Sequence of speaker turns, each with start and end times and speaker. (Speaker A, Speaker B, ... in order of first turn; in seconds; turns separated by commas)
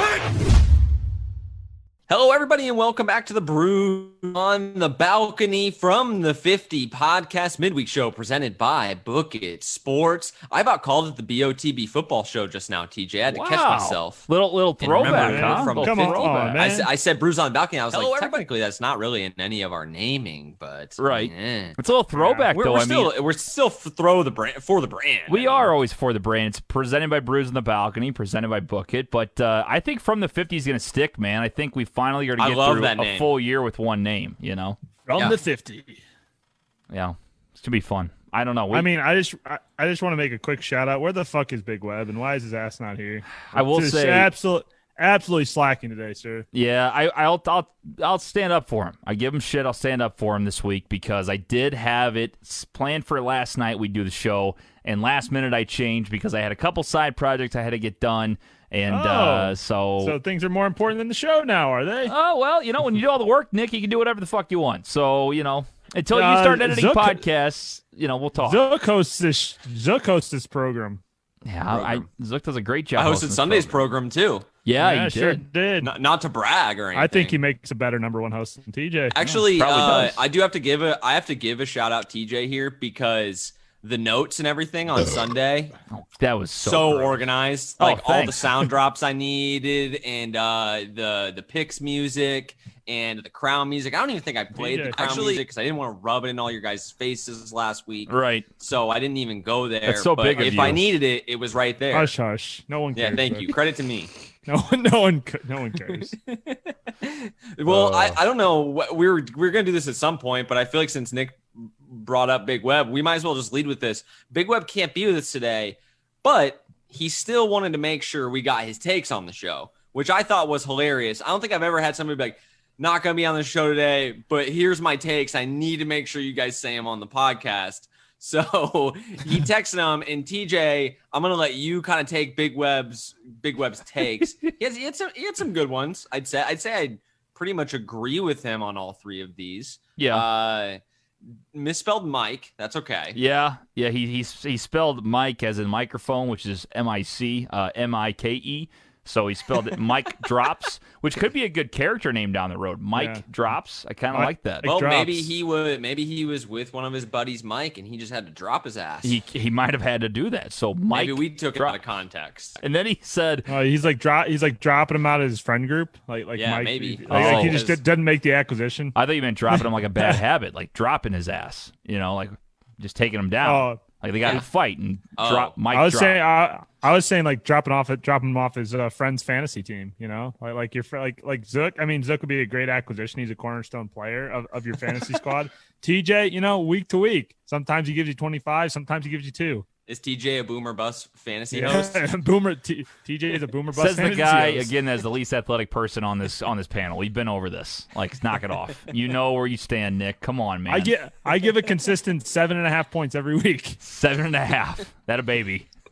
Speaker A: 2.1-14.2, Speaker B: 13.3-16.6, Speaker A: 14.8-21.8, Speaker C: 15.0-16.9, Speaker B: 17.9-18.4, Speaker B: 21.0-23.1, Speaker C: 22.1-22.5, Speaker A: 22.5-25.7, Speaker B: 25.3-34.8, Speaker A: 32.4-33.3, Speaker C: 35.0-36.0, Speaker B: 36.9-38.9, Speaker C: 38.7-46.5, Speaker B: 43.5-44.3, Speaker B: 46.5-60.1, Speaker C: 58.9-62.1, Speaker B: 62.0-68.6, Speaker C: 66.1-67.2, Speaker C: 68.4-71.0, Speaker B: 71.4-73.8, Speaker A: 71.7-72.0, Speaker A: 72.9-74.5, Speaker B: 74.6-75.4, Speaker C: 74.8-75.9, Speaker A: 75.8-77.4, Speaker C: 76.9-79.2, Speaker A: 79.1-85.7, Speaker B: 79.2-80.2, Speaker B: 85.9-87.2, Speaker A: 86.6-102.1, Speaker B: 87.8-88.7, Speaker C: 94.5-95.4, Speaker B: 98.1-98.5, Speaker B: 99.8-101.0, Speaker C: 101.9-103.5, Speaker A: 102.9-104.1, Speaker C: 104.5-106.1, Speaker A: 106.2-140.8, Speaker B: 107.7-108.2, Speaker B: 140.0-140.2, Speaker A: 141.5-143.2, Speaker B: 143.1-154.7, Speaker C: 152.9-153.2, Speaker C: 154.1-155.3, Speaker A: 154.6-159.2, Speaker B: 159.0-161.8, Speaker A: 160.9-162.6, Speaker B: 162.6-163.5, Speaker C: 163.5-168.9, Speaker A: 166.3-167.8, Speaker B: 167.1-167.6, Speaker B: 168.9-176.2, Speaker C: 169.5-170.2, Speaker C: 173.4-173.8, Speaker A: 175.2-175.5, Speaker C: 175.7-189.7, Speaker A: 189.9-192.0, Speaker C: 191.5-194.7, Speaker B: 193.7-200.9, Speaker C: 200.7-203.8, Speaker B: 203.8-205.7